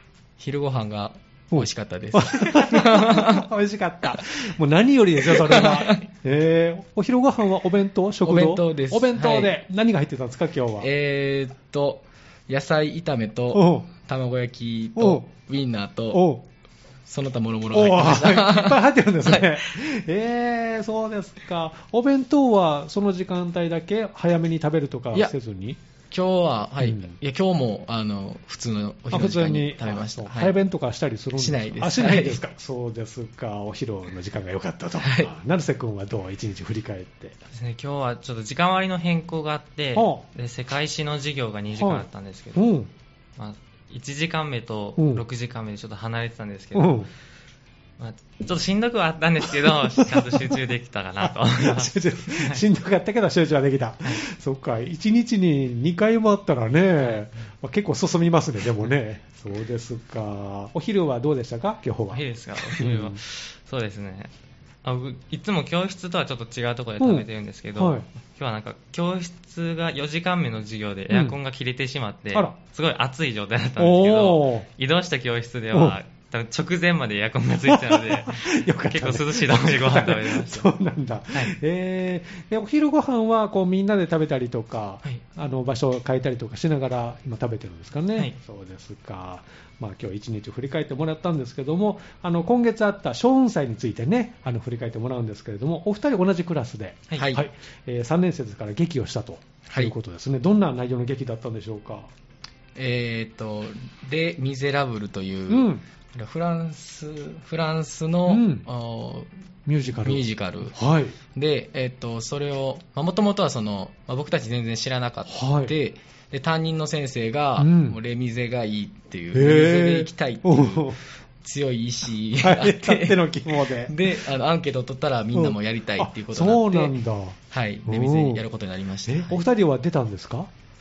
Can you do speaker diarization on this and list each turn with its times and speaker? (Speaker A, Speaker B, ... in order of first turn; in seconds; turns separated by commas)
Speaker A: 0.4-3.5, Speaker B: 1.5-10.9, Speaker A: 5.2-6.0, Speaker A: 8.2-9.5, Speaker A: 10.8-16.3, Speaker B: 13.5-13.9, Speaker B: 14.9-15.3, Speaker B: 16.1-16.4, Speaker A: 17.1-19.6, Speaker B: 17.7-25.8, Speaker A: 26.1-30.6, Speaker B: 26.8-27.1, Speaker B: 29.1-37.4, Speaker A: 31.4-32.4, Speaker A: 35.0-35.3, Speaker C: 37.5-42.7, Speaker B: 39.9-40.2, Speaker B: 41.7-42.9, Speaker C: 43.4-47.0, Speaker B: 45.0-45.2, Speaker B: 46.7-47.1, Speaker C: 48.0-52.6, Speaker B: 49.6-50.5, Speaker B: 51.2-63.2, Speaker C: 57.0-57.3, Speaker C: 62.1-64.3, Speaker C: 64.8-80.7, Speaker B: 67.0-68.0, Speaker B: 71.1-71.3, Speaker B: 73.8-74.7, Speaker B: 75.7-76.0, Speaker B: 77.7-102.1, Speaker A: 97.1-97.4, Speaker A: 99.7-99.9, Speaker A: 102.7-109.3, Speaker B: 105.5-105.8, Speaker B: 108.3-108.7, Speaker B: 109.7-111.2, Speaker A: 109.9-110.8, Speaker A: 111.3-127.0, Speaker B: 115.3-115.7, Speaker B: 117.6-118.0, Speaker B: 119.3-121.0, Speaker B: 122.4-124.2, Speaker B: 125.3-128.4, Speaker A: 127.5-129.4, Speaker B: 129.1-130.5